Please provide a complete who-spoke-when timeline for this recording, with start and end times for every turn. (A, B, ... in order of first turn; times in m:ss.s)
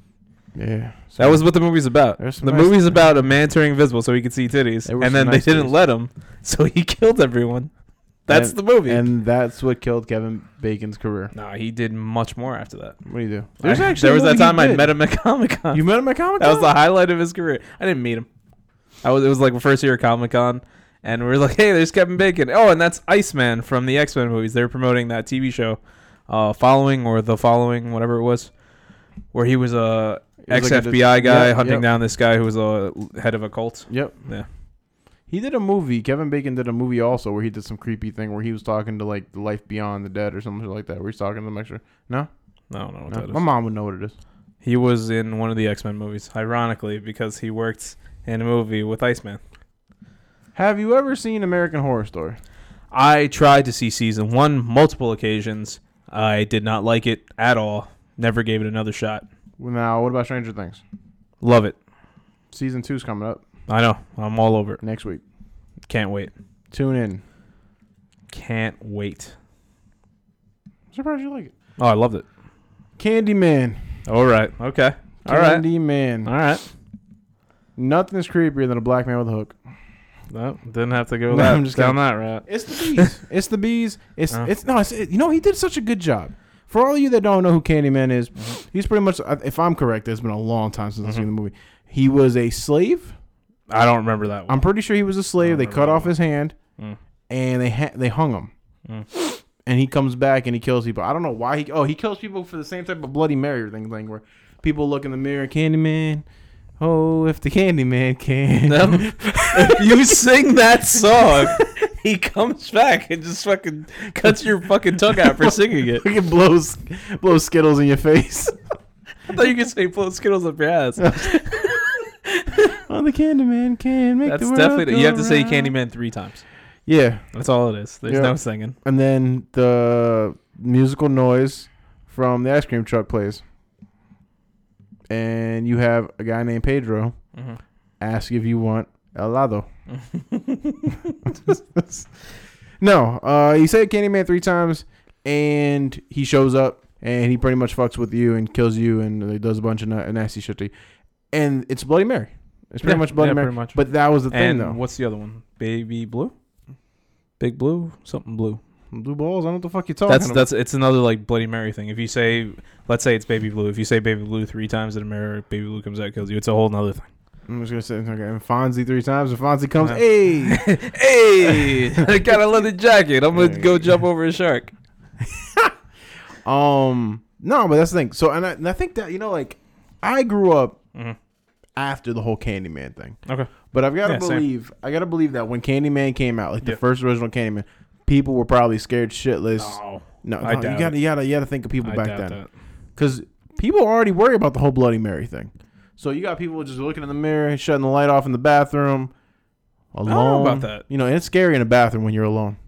0:00.5-0:01.5 A
0:01.2-0:07.7 B
0:02.2-0:02.9 A
0:04.8-0:05.7 A
0:08.2-0:09.0 B
0:08.3-0:11.3 A
0:11.3-0:13.0 B
0:13.0-0:14.9 A
0:13.6-0:15.8 B
0:15.7-0:16.7 A
0:16.4-0:18.3 B
0:19.0-0:28.5 B
0:29.3-0:34.5 B
0:30.4-0:31.8 A
0:33.9-0:34.2 A
0:35.3-0:42.3 A
0:42.7-0:43.4 B
0:43.1-0:44.1 A
0:44.6-0:49.4 B
0:50.5-0:52.4 A
0:52.9-0:59.2 B
0:59.6-1:00.8 A
1:01.4-1:01.8 B
1:02.5-1:03.4 A
1:03.7-1:04.8 B
1:04.8-1:05.2 A
1:05.9-1:06.3 B
1:06.7-1:07.2 A
1:08.3-1:09.3 B
1:10.9-1:11.5 A
1:11.8-1:12.2 B
1:13.0-1:13.8 A
1:14.0-1:15.6 B
1:15.2-1:16.3 A
1:16.2-1:16.6 B
1:17.8-1:19.6 A
1:20.3-1:23.1 B
1:21.3-1:33.1 A
1:33.7-1:34.7 B
1:34.5-1:36.5 A
1:35.4-1:36.1 B
1:37.3-1:38.5 A
1:39.6-1:46.2 A
1:46.8-1:50.4 A
1:48.7-1:56.0 B
1:51.0-1:51.7 A
1:55.1-1:58.6 A
1:59.3-2:02.6 B
2:01.0-2:01.6 A
2:02.7-2:05.7 A
2:04.2-2:06.4 B
2:06.8-2:07.2 A
2:07.3-2:08.8 B
2:08.1-2:13.4 A
2:15.1-2:17.1 A
2:18.0-2:19.7 A
2:19.9-2:21.2 B
2:21.2-2:22.1 A
2:22.8-2:30.7 A
2:31.3-2:34.8 A
2:32.8-2:33.8 B
2:34.3-2:36.3 B
2:37.4-2:38.6 B
2:38.9-2:40.4 A
2:40.1-2:47.1 B
2:47.5-2:50.7 A
2:49.8-2:54.7 B
2:51.4-2:52.1 A
2:53.3-2:54.0 A
2:55.3-2:55.7 A
2:56.4-3:00.8 A
3:01.8-3:03.2 A
3:03.2-3:03.5 B
3:03.7-3:12.4 A
3:04.0-3:04.4 B
3:09.6-3:10.9 B
3:11.8-3:12.5 B
3:13.0-3:19.1 A
3:19.9-3:22.6 A
3:20.0-3:20.8 B